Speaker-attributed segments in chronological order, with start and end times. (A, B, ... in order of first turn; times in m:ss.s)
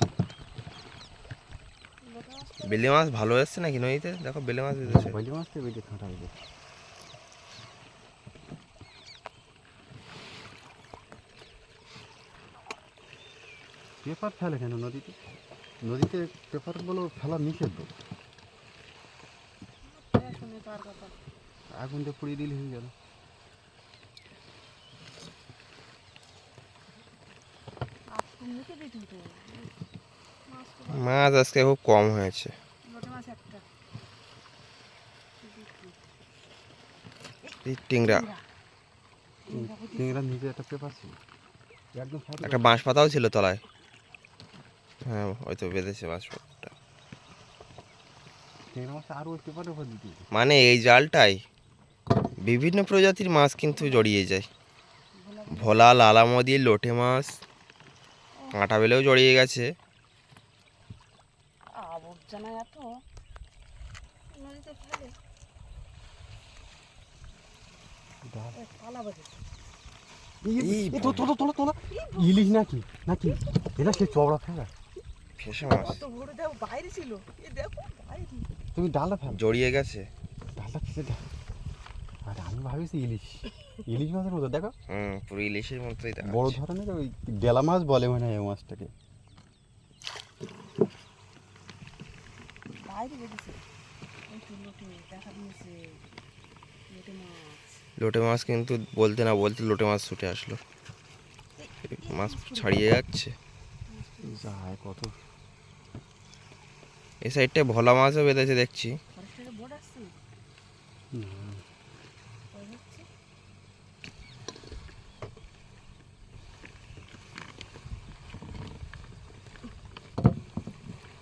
0:02.0-0:02.9 A
0:02.6-0:05.2 B
0:04.8-0:06.3 C
0:14.0-0:15.1 C
0:15.8-0:17.9 C
0:19.8-0:21.2 A
0:21.7-0:22.9 C
0:28.1-0:29.8 A
0:30.4-0:31.3 A
0:30.9-0:32.5 B
0:32.8-0:33.6 A
0:35.4-0:36.0 A
0:37.4-0:38.4 A
0:37.6-0:38.3 B
0:39.5-0:40.2 A
0:39.5-0:41.2 C
0:41.9-0:42.8 C
0:42.4-0:43.6 B
0:45.1-0:46.7 B
0:48.7-0:50.2 C
0:50.3-0:51.4 B
0:52.4-0:54.5 B
0:53.7-0:54.1 A
0:55.2-0:55.8 A
0:55.5-0:57.3 B
0:58.5-0:59.6 B
1:01.7-1:02.9 A
1:04.3-1:05.1 A
1:08.2-1:08.6 C
1:08.5-1:09.4 A
1:10.4-1:14.7 C
1:10.6-1:11.3 B
1:11.9-1:12.6 A
1:13.4-1:14.1 A
1:15.4-1:16.0 B
1:15.6-1:18.5 A
1:18.7-1:19.4 C
1:19.3-1:20.0 B
1:20.6-1:21.2 C
1:22.3-1:24.7 C
1:24.9-1:26.6 B
1:26.2-1:28.9 C
1:32.8-1:33.6 A
1:34.3-1:36.0 A
1:36.9-1:37.6 A
1:38.0-1:40.6 B
1:41.6-1:42.9 A
1:41.9-1:43.3 B
1:43.9-1:44.5 A
1:44.2-1:45.1 C
1:47.2-1:48.9 B
1:49.1-1:50.1 A
1:51.1-1:51.6 C
1:52.5-1:53.1 A